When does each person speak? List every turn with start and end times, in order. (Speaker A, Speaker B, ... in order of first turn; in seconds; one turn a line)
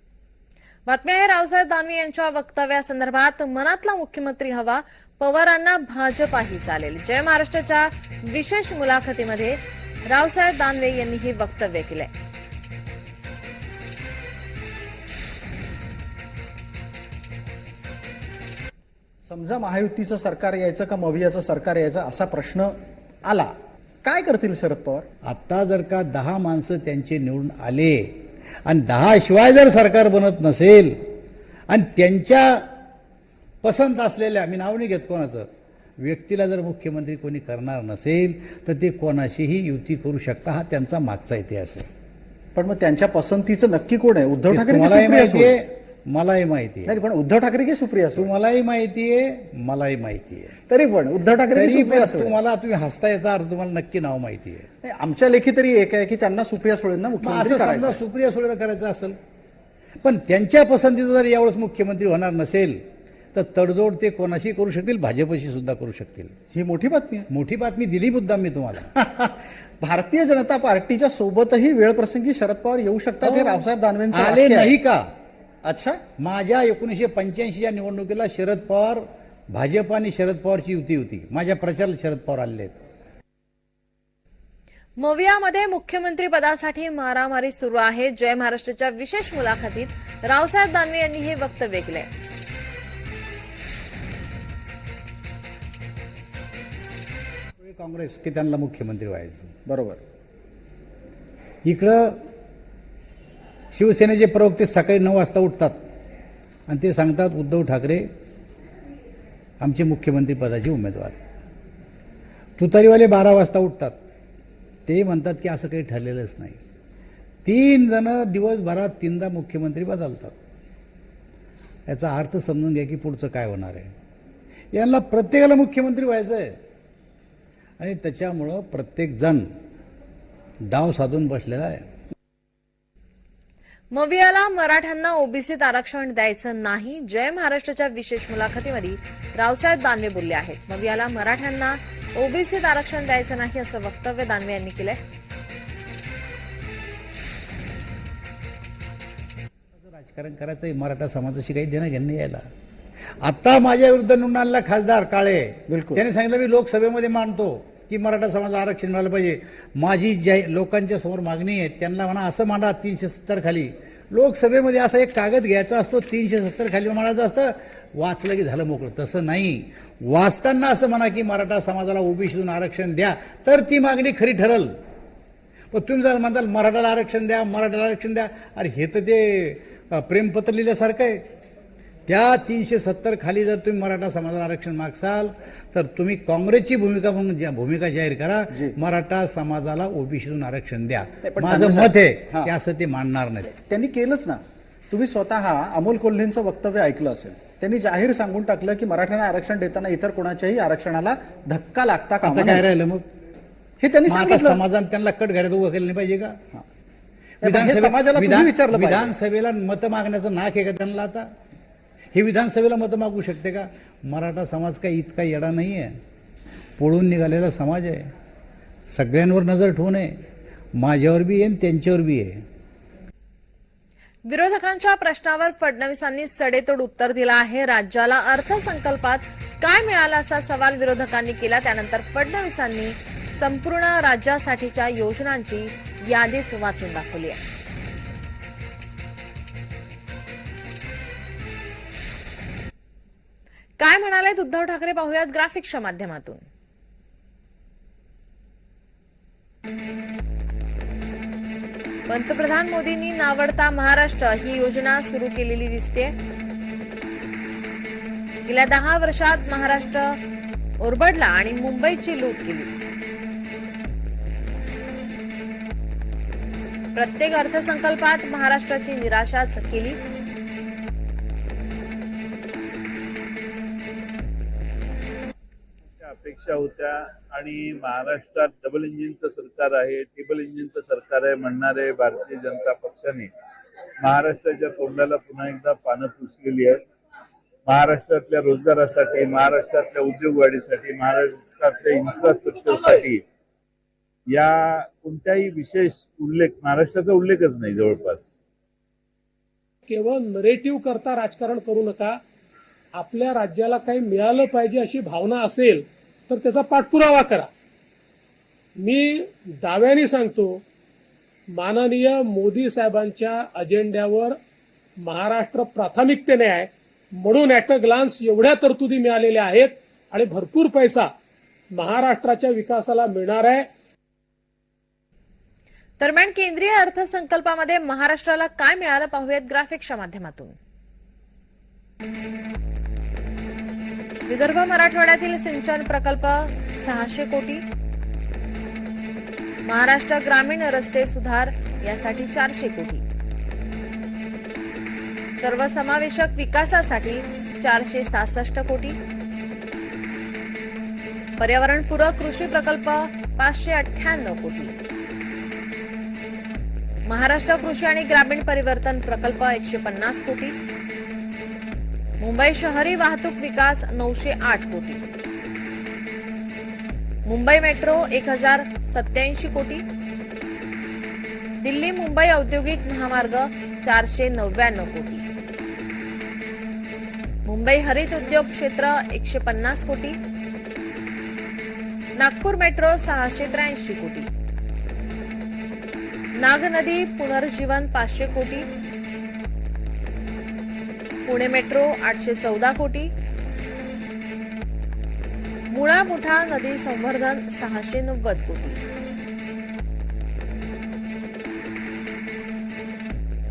Speaker A: 0.9-12.1
Speaker B: 19.2-25.1
Speaker C: 25.2-28.0
Speaker C: 28.6-30.9
Speaker C: 31.7-32.6
Speaker C: 33.6-35.5
Speaker C: 36.0-41.9
Speaker B: 42.5-45.6
Speaker C: 44.5-47.0
Speaker B: 46.9-48.3
Speaker C: 48.1-50.6
Speaker B: 50.7-52.4
Speaker C: 51.5-54.7
Speaker B: 54.8-58.0
Speaker C: 57.2-59.2
Speaker C: 60.0-62.8
Speaker C: 63.3-66.3
Speaker B: 66.5-67.3
Speaker C: 67.3-68.9
Speaker B: 68.9-74.8
Speaker C: 73.2-75.0
Speaker B: 75.6-76.0
Speaker C: 76.2-82.7
Speaker A: 85.0-92.1
Speaker C: 97.6-99.5
Speaker B: 99.7-100.0
Speaker C: 101.6-102.2
Speaker C: 103.7-105.8
Speaker C: 106.7-108.1
Speaker C: 109.6-111.2
Speaker C: 112.6-114.0
Speaker C: 114.9-116.6
Speaker C: 117.4-120.3
Speaker C: 121.9-123.9
Speaker C: 124.7-126.5
Speaker C: 127.8-129.5
Speaker C: 130.7-131.8
Speaker A: 133.9-145.0
Speaker C: 149.8-152.4
Speaker C: 153.2-174.7
Speaker B: 155.7-156.0
Speaker C: 175.7-181.2
Speaker C: 182.1-193.5
Speaker B: 191.2-192.5
Speaker B: 193.5-194.4
Speaker B: 194.9-202.7
Speaker C: 202.2-203.1
Speaker B: 203.8-204.6
Speaker C: 204.1-206.4
Speaker B: 207.4-209.2
Speaker C: 207.4-211.3
Speaker C: 212.1-215.9
Speaker C: 216.8-218.1
Speaker C: 218.9-220.1
Speaker C: 220.8-222.3
Speaker A: 224.2-237.4
Speaker A: 243.8-246.4
Speaker A: 252.1-256.1
Speaker A: 258.4-260.2
Speaker A: 260.8-262.7
Speaker A: 266.9-270.0
Speaker D: 276.0-283.3
Speaker D: 284.0-286.8
Speaker D: 287.7-293.2
Speaker D: 294.3-298.3
Speaker E: 299.9-302.2
Speaker E: 302.9-307.5
Speaker E: 308.8-310.6
Speaker E: 311.5-314.4
Speaker E: 315.0-316.7
Speaker E: 317.2-321.1
Speaker E: 321.8-323.7
Speaker A: 326.0-330.6
Speaker A: 334.3-337.6
Speaker A: 339.6-343.0
Speaker A: 345.4-349.0
Speaker A: 351.4-354.7
Speaker A: 357.1-360.5
Speaker A: 362.2-365.0
Speaker A: 367.2-369.8
Speaker A: 371.6-375.2
Speaker A: 377.4-380.2
Speaker A: 382.2-384.3
Speaker A: 386.4-388.7
Speaker A: 391.2-393.1
Speaker A: 395.7-398.8